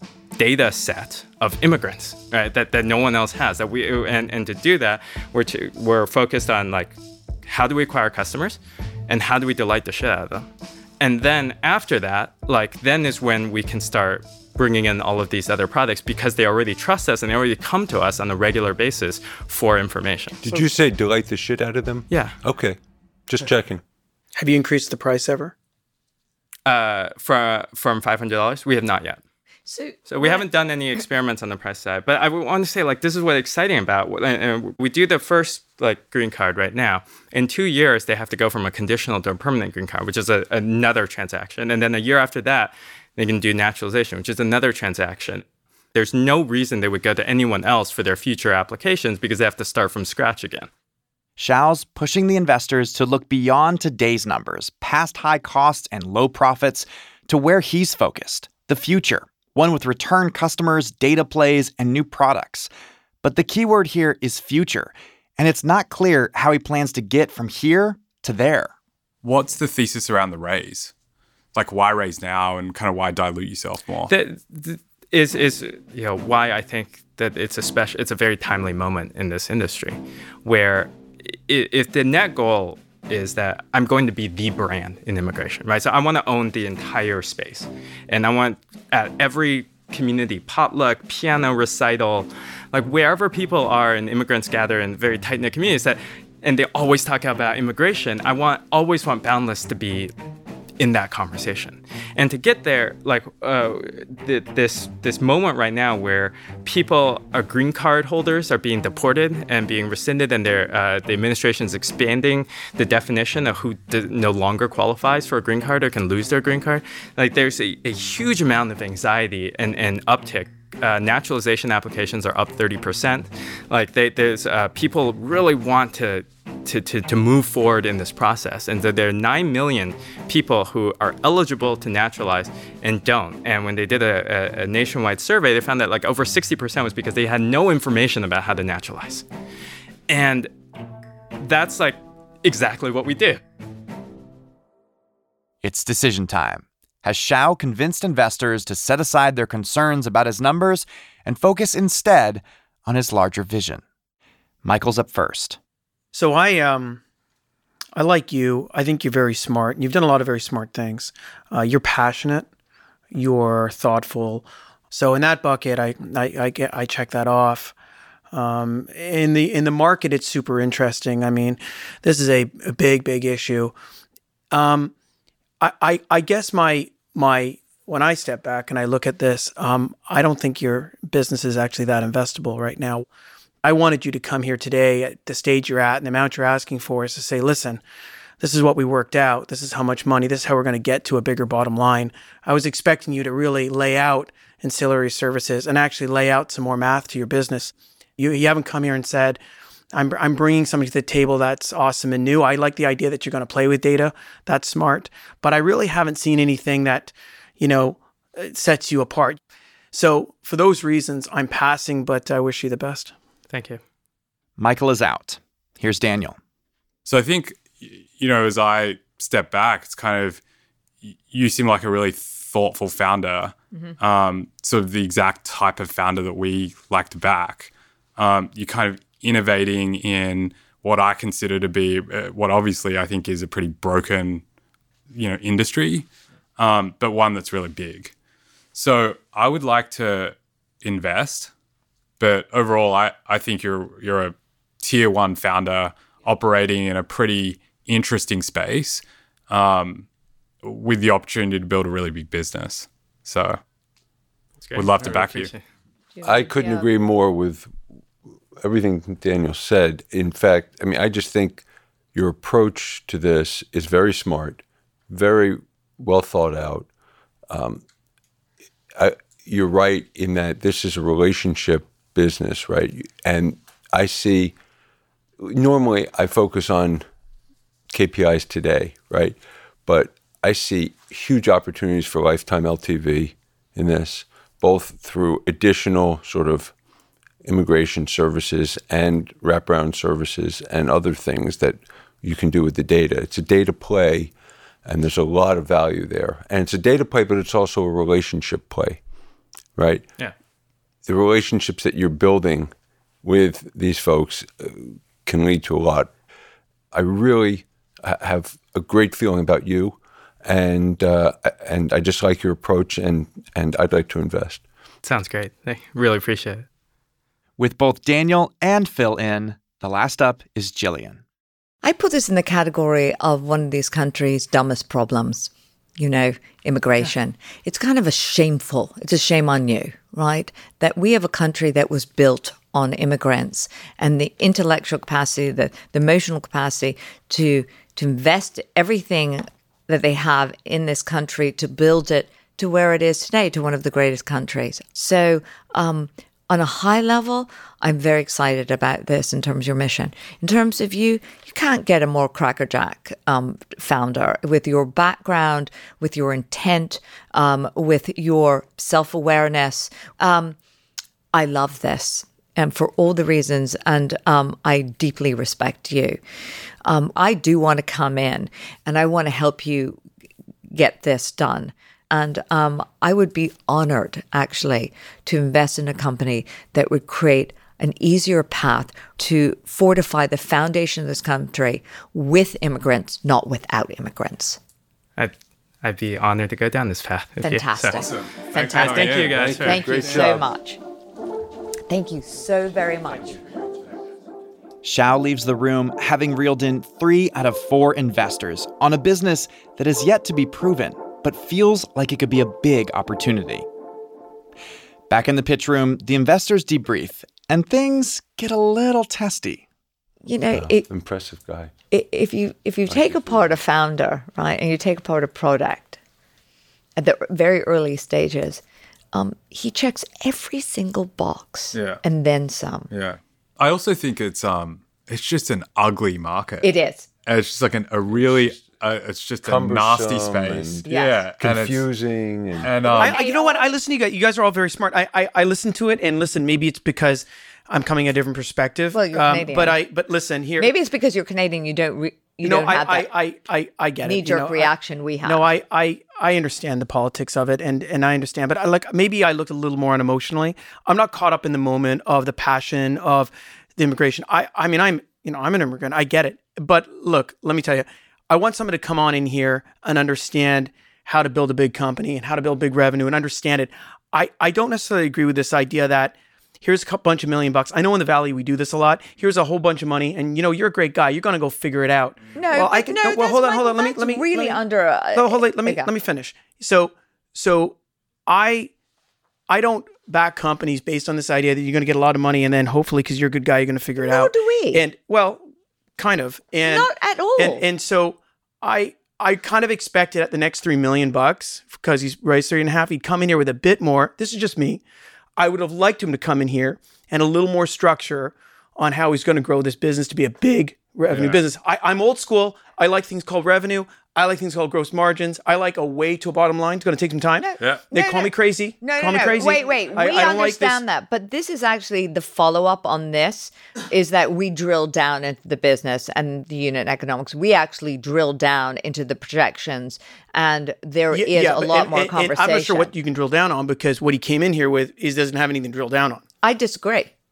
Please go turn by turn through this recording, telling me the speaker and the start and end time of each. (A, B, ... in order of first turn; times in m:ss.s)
0:00.4-0:10.5 A
0:11.0-0:20.6 A
0:20.4-0:23.8 B
0:22.1-0:22.4 A
0:24.4-0:25.5 C
0:26.6-0:29.2 A
0:29.7-0:30.4 D
0:30.0-0:50.7 A
0:51.4-1:02.7 E
1:03.2-1:08.7 E
1:09.2-1:10.9 F
1:11.5-1:14.1 F
1:14.1-1:40.1 A
1:40.8-2:19.2 A
2:20.1-2:20.5 A
2:21.4-2:23.4 A
2:25.6-2:33.8 E
2:34.6-2:35.6 E
2:36.1-2:37.0 C
2:37.9-2:42.5 C
2:43.1-2:47.7 C
2:48.3-2:53.7 C
2:54.5-2:54.9 C
2:55.6-3:03.0 C
3:03.6-3:07.8 C
3:08.4-3:19.4 C
3:19.9-3:29.4 C
3:29.9-3:33.1 C
3:33.5-3:33.8 A
3:34.6-3:36.4 E
3:37.0-3:40.4 F
3:41.0-3:54.4 F
3:55.1-3:58.1 F
3:58.7-4:01.5 F
4:02.2-4:10.1 F
4:10.6-4:13.6 F
4:14.6-4:15.6 A
4:14.7-4:15.5 F
4:16.2-4:16.9 D
4:16.2-4:17.8 B
4:18.6-4:26.9 B
4:27.5-4:27.8 B
4:29.0-4:34.6 B
4:35.4-4:37.0 B
4:37.9-4:46.7 B
4:47.4-4:59.0 B
4:59.7-5:00.1 B
5:01.0-5:06.1 B
5:06.9-5:14.6 B
5:15.0-5:16.6 A
5:17.6-5:21.2 E
5:21.8-6:00.6 D
6:01.3-6:06.2 D
6:06.8-6:10.0 D
6:10.7-6:24.6 D
6:25.2-6:28.1 A
6:27.4-6:30.8 D
6:27.9-6:30.3 F
6:28.7-6:29.8 A
6:29.2-6:30.5 B
6:31.9-6:33.4 D
6:34.8-6:43.7 E
6:45.1-6:49.6 E
6:50.2-6:50.8 D
6:50.5-6:51.7 B
6:51.9-6:56.0 D
6:52.9-6:53.6 B
6:57.0-6:58.6 D
6:59.1-7:02.9 D
7:01.7-7:02.0 F
7:02.9-7:06.7 F
7:06.6-7:07.1 D
7:07.2-7:11.8 F
7:08.2-7:08.7 B
7:09.4-7:12.8 B
7:10.8-7:11.2 D
7:12.6-7:13.2 F
7:12.9-7:20.7 C
7:13.0-7:13.7 D
7:18.9-7:19.8 D
7:20.6-7:23.1 D
7:22.4-7:54.6 C
7:24.0-7:25.5 D
7:52.4-7:55.9 D
7:55.1-7:58.7 C
7:59.5-8:05.4 C
8:04.0-8:04.8 D
8:06.0-8:14.8 C
8:06.6-8:07.6 D
8:15.4-8:30.8 C
8:21.1-8:21.4 F
8:27.5-8:42.9 D
8:27.6-8:27.9 F
8:41.1-8:46.2 C
8:46.4-8:47.1 D